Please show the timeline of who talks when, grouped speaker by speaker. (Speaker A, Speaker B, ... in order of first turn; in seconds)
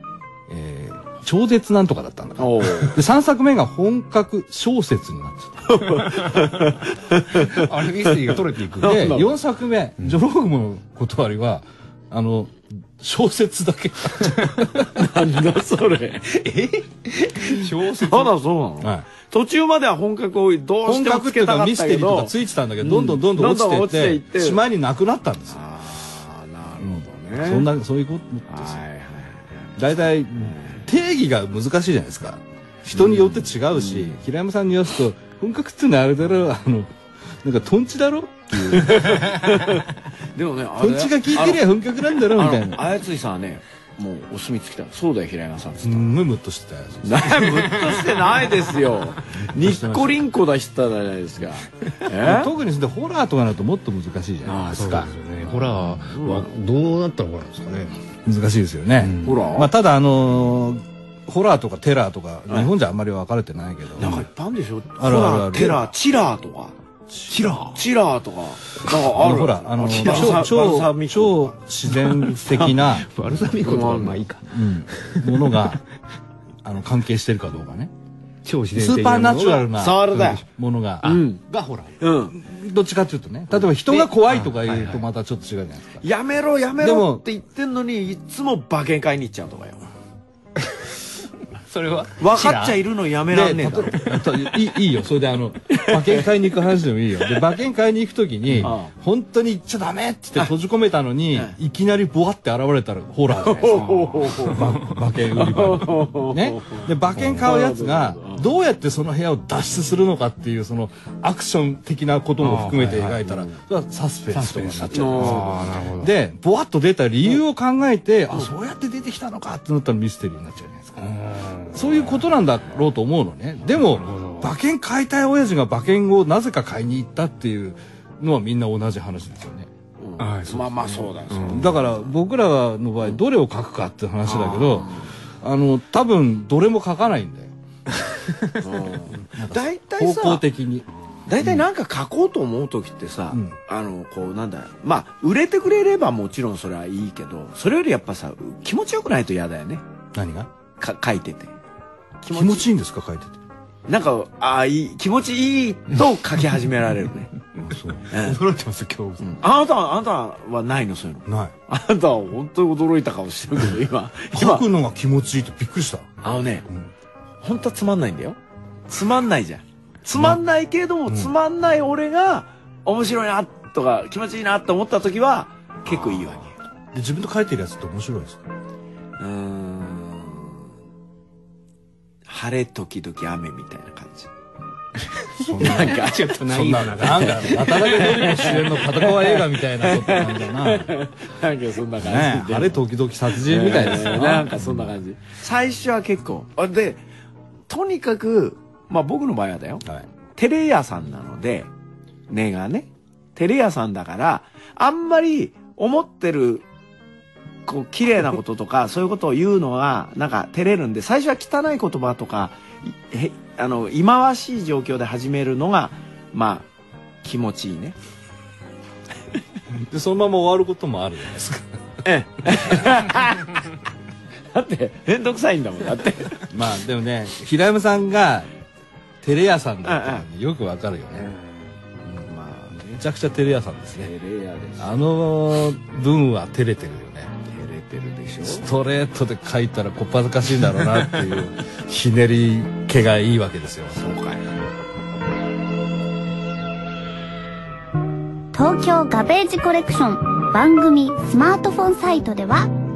Speaker A: 0.5-5.8, 8.8-14.9, 18.8-19.1, 20.9-25.6, 26.8-28.8, 29.8-39.4, 40.8-42.8, 45.8-47.7, 49.5-50.2, 52.1-55.1, 58.2-64.3, 65.0-65.9, 67.1-67.4, 68.9-73.1, 74.5-75.8, 76.6-77.9, 78.8-81.2, 82.3-86.0, 86.8-87.2, 92.4-92.6, 93.3-121.0, 121.7-129.7, 131.5-137.5, 139.1-140.9, 143.3-143.6, 150.1-150.5, 152.3-153.4, 157.6-158.1, 161.3-161.5, 164.3-166.2, 170.1-170.4, 176.9-178.4, 185.4-191.0, 192.0-194.9, 219.7-221.8, 226.5-228.5, 229.2-231.3, 232.9-234.1, 234.8-237.3, 238.4-244.0
Speaker B: 2.4-3.0, 5.7-9.3, 14.9-16.6, 17.3-24.6, 25.5-27.7, 28.5-29.8, 30.4-30.9, 32.9-34.2, 38.7-41.6, 42.2-46.1, 47.0-52.5, 55.7-56.5, 59.2-59.7, 64.0-66.8, 67.3-71.6, 73.5-74.4, 79.6-80.4, 81.0-81.4, 82.0-82.4, 86.0-89.8, 92.2-94.4, 95.7-96.3, 98.6-98.9, 103.4-108.5, 114.9-115.7, 130.0-132.1, 134.4-135.1, 138.6-140.4, 141.3-149.8, 150.8-151.5, 152.2-152.7, 153.9-157.3, 158.1-158.4, 159.2-164.7, 166.2-166.7, 167.4-168.4, 168.9-176.6, 179.2-180.7, 182.3-184.3, 185.6-197.0, 197.7-199.8, 200.4-201.7, 202.3-206.7, 207.7-216.7, 217.2-218.0, 222.0-223.6, 224.5-226.5, 229.9-230.2, 232.1-233.0, 234.0-235.0, 237.5-238.7, 243.9-244.5
Speaker C: 7.4-9.3, 16.4-18.3, 54.5-58.0, 59.0-59.4, 72.1-75.7, 78.5-80.4, 81.1-82.0, 84.0-85.0, 91.7-92.7, 103.8-104.5, 107.2-107.5, 112.4-113.2, 114.3-116.1, 121.0-122.3, 123.8-124.5, 130.2-131.7, 158.1-159.4, 185.4-188.5
Speaker D: 248.5-252.7